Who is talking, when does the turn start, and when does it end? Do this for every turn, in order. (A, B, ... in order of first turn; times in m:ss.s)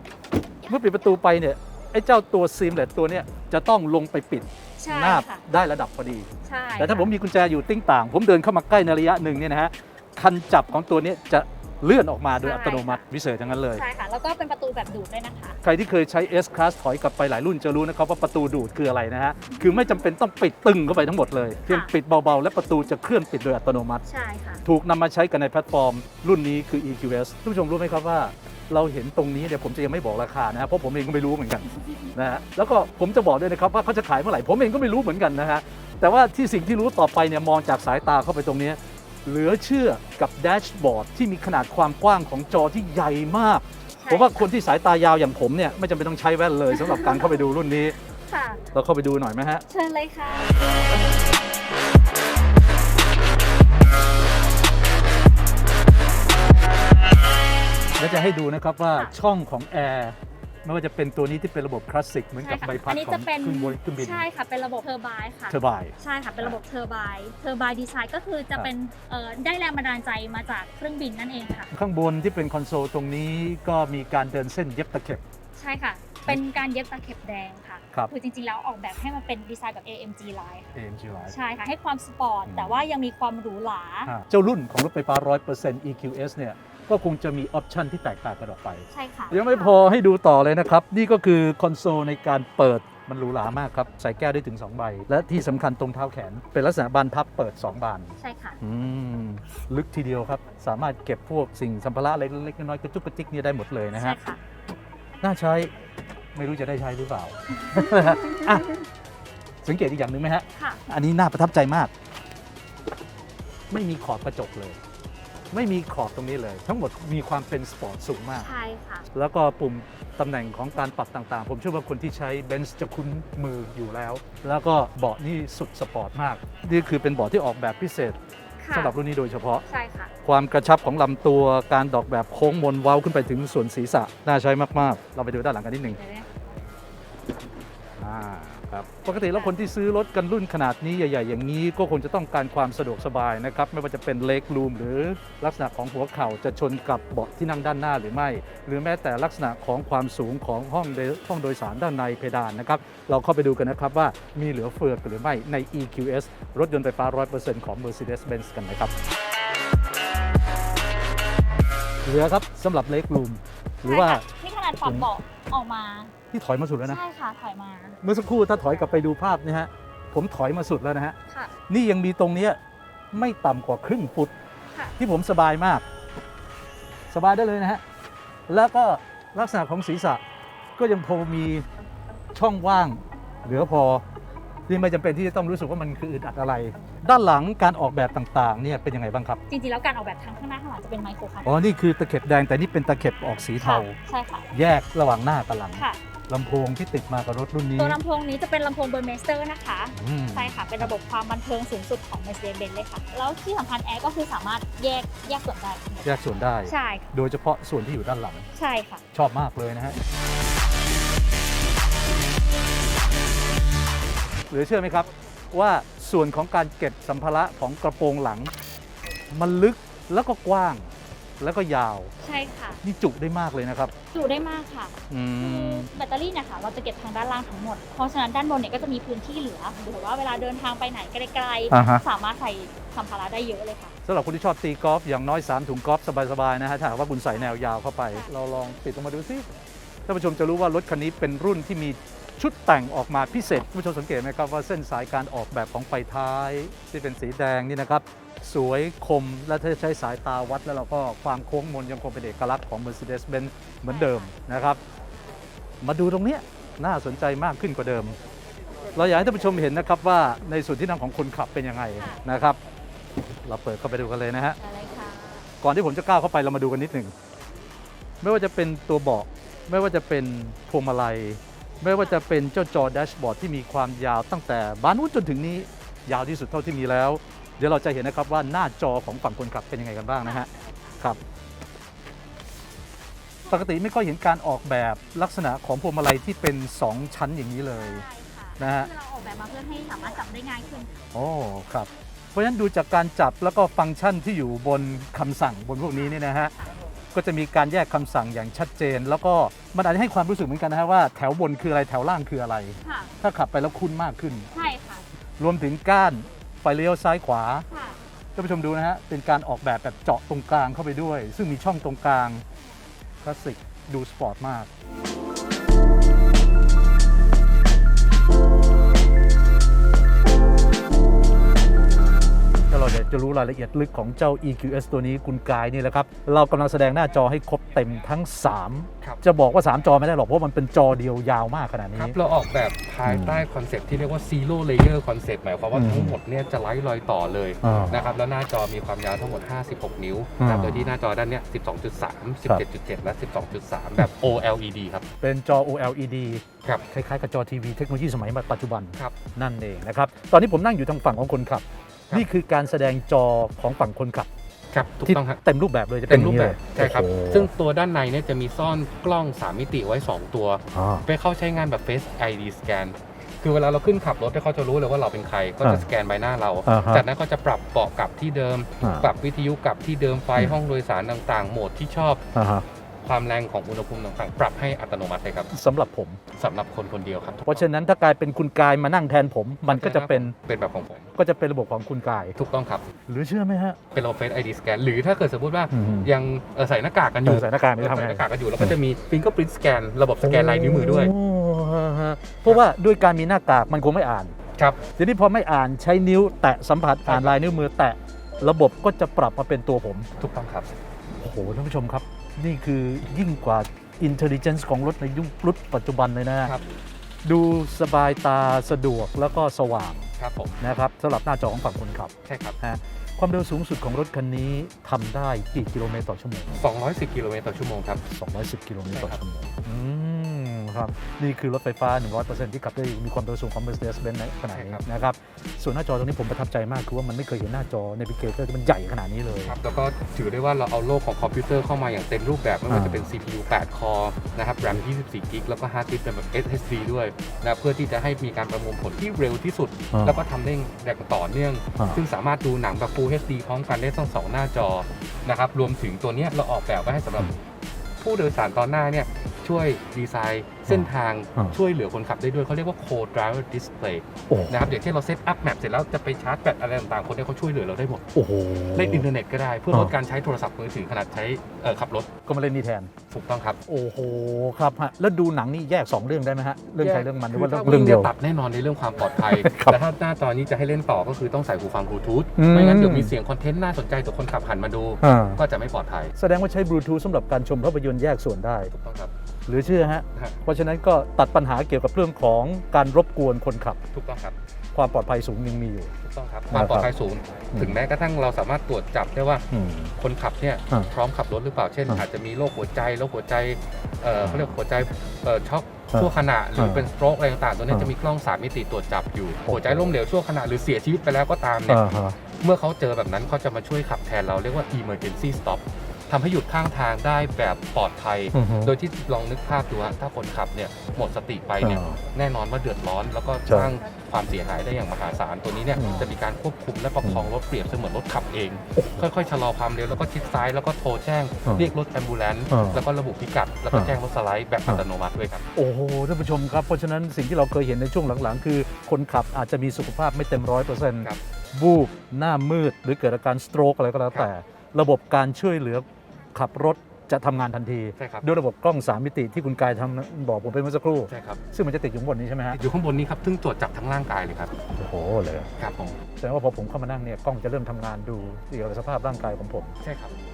0:00.6-0:06.3 A
0:04.8-0:05.4 B
0:06.4-0:07.1 B
0:06.8-0:13.8 A
0:12.4-0:13.0 B
0:13.7-0:15.6 B
0:15.6-0:24.0 A
0:21.6-0:21.9 B
0:24.0-0:24.6 B
0:24.6-0:48.0 A
0:44.0-0:44.5 B
0:48.3-0:48.6 B
0:48.7-0:49.6 A
0:49.7-0:50.6 B
0:58.0-1:04.2 A
1:02.4-1:11.7 B
1:05.5-1:06.6 A
1:11.7-1:15.2 A
1:15.6-1:20.7 B
1:20.7-1:21.3 A
1:21.3-1:24.1 B
1:22.4-1:22.8 A
1:24.0-1:44.2 A
1:28.9-1:29.8 B
1:38.2-1:38.6 B
1:43.9-1:44.4 B
1:45.2-1:45.7 A
1:46.3-1:48.8 A
1:47.7-1:48.8 B
1:49.6-1:51.9 A
1:50.5-1:50.8 B
1:53.7-1:54.8 A
1:55.5-1:58.5 A
1:58.3-1:59.1 B
1:59.1-2:08.2 A
2:08.6-2:09.0 B
2:08.7-2:09.6 A
2:09.7-2:10.1 B
2:10.2-2:16.0 A
2:15.9-2:16.3 B
2:18.0-2:38.9 A
2:42.0-2:44.2 A
2:43.8-2:46.1 B
2:44.8-2:45.1 A
2:46.3-2:47.0 A
2:46.8-2:48.0 B
2:48.0-2:51.2 A
2:51.7-2:52.6 A
2:53.1-2:54.3 A
2:55.0-2:55.8 A
2:57.1-2:57.8 A
2:58.5-3:00.2 A
3:00.8-3:01.6 A
3:02.3-3:04.0 A
3:04.7-3:09.4 A
3:09.5-3:11.6 B
3:11.4-3:14.0 A
3:13.6-3:14.5 B
3:14.5-3:18.0 A
3:15.7-3:16.0 B
3:17.8-3:26.1 B
3:19.9-3:20.9 A
3:26.0-3:28.4 A
3:26.6-3:27.1 B
3:28.5-3:29.0 B
3:29.1-3:30.0 A
3:34.5-3:38.5 A
3:39.3-3:40.9 A
3:41.4-3:42.1 A
3:42.2-3:42.8 B
3:42.8-3:43.9 A
3:44.1-3:53.9 B
3:45.1-3:45.9 A
3:51.7-3:52.0 A
3:54.0-3:59.5 A
4:00.1-4:14.8 A
4:13.9-4:14.3 B
4:15.8-4:18.2 A
4:18.9-4:22.6 A
4:23.4-4:24.6 A
4:24.6-4:25.4 B
4:25.6-4:27.1 A
4:28.2-4:40.5 A
4:40.2-4:41.0 B
4:43.5-4:48.1 A
4:47.7-4:51.0 B
4:48.6-4:48.9 A
4:51.1-4:56.5 A
4:55.9-4:56.7 B
4:57.1-5:04.5 A
5:02.8-5:03.1 B
5:04.5-5:05.0 B
5:05.4-5:07.6 A
5:07.7-5:08.0 B
5:08.4-5:12.4 A
5:13.2-5:14.7 A
5:22.7-5:32.2 A
5:31.9-5:45.0 C
5:33.0-5:33.4 A
5:35.7-5:36.2 A
5:37.6-5:38.1 A
5:40.4-5:40.9 A
5:45.2-5:54.3 A
5:54.7-5:55.4 C
5:55.1-5:57.5 A
5:56.1-6:12.2 C
6:00.7-6:01.1 A
6:06.6-6:07.0 A
6:08.8-6:09.1 A
6:12.3-6:12.6 A
6:13.0-6:15.5 C
6:15.5-6:16.2 A
6:16.3-6:17.6 C
6:17.4-6:20.3 A
6:19.7-6:21.1 C
6:21.1-6:22.4 A
6:22.4-6:22.8 C
6:23.1-6:23.8 A
6:23.9-6:31.1 C
6:25.7-6:26.1 A
6:27.2-6:28.7 A
6:30.2-6:34.3 A
6:34.6-6:34.8 C
6:35.0-6:40.1 A
6:37.0-6:37.4 C
6:40.2-6:40.7 C
6:41.2-6:46.5 A
6:47.2-6:50.1 A
6:50.2-6:50.6 C
6:50.6-6:56.6 A
6:52.2-6:52.6 C
6:56.5-6:58.0 C
6:58.1-7:09.6 A
6:58.9-6:59.2 C
7:04.5-7:04.8 C
7:09.4-7:27.4 C
7:12.7-7:13.1 A
7:19.9-7:20.2 A
7:28.0-7:38.1 C
7:30.7-7:31.6 A
7:34.3-7:34.6 A
7:38.1-7:39.1 A
7:38.7-7:42.1 C
7:42.3-7:42.9 A
7:43.1-7:43.6 C
7:43.7-7:48.1 A
7:46.8-7:56.1 C
7:49.1-7:49.8 A
7:52.4-7:53.1 A
7:55.0-7:55.4 A
7:56.2-7:58.7 A
7:58.7-7:59.1 C
7:59.5-8:03.8 A
8:03.9-8:04.4 C
8:04.7-8:05.9 A
8:06.0-8:09.4 C
8:06.5-8:06.9 A
8:09.5-8:09.9 A
8:10.0-8:45.4 C
8:14.2-8:14.6 A
8:15.9-8:16.9 A
8:17.7-8:17.9 A
8:19.5-8:19.9 A
8:21.7-8:22.2 A
8:28.3-8:28.7 A
8:31.6-8:32.0 A
8:33.5-8:33.7 A
8:35.7-8:36.1 A
8:37.0-8:37.3 A
8:38.7-8:39.1 A
8:41.4-8:41.7 A
8:42.5-8:42.8 A
8:43.7-8:44.0 A
8:45.6-9:02.6 A
8:58.0-8:58.3 C
9:01.1-9:01.4 C
9:02.5-9:04.5 C
9:04.7-9:05.5 A
9:05.6-9:06.0 C
9:06.2-9:09.7 A
9:09.8-9:10.1 C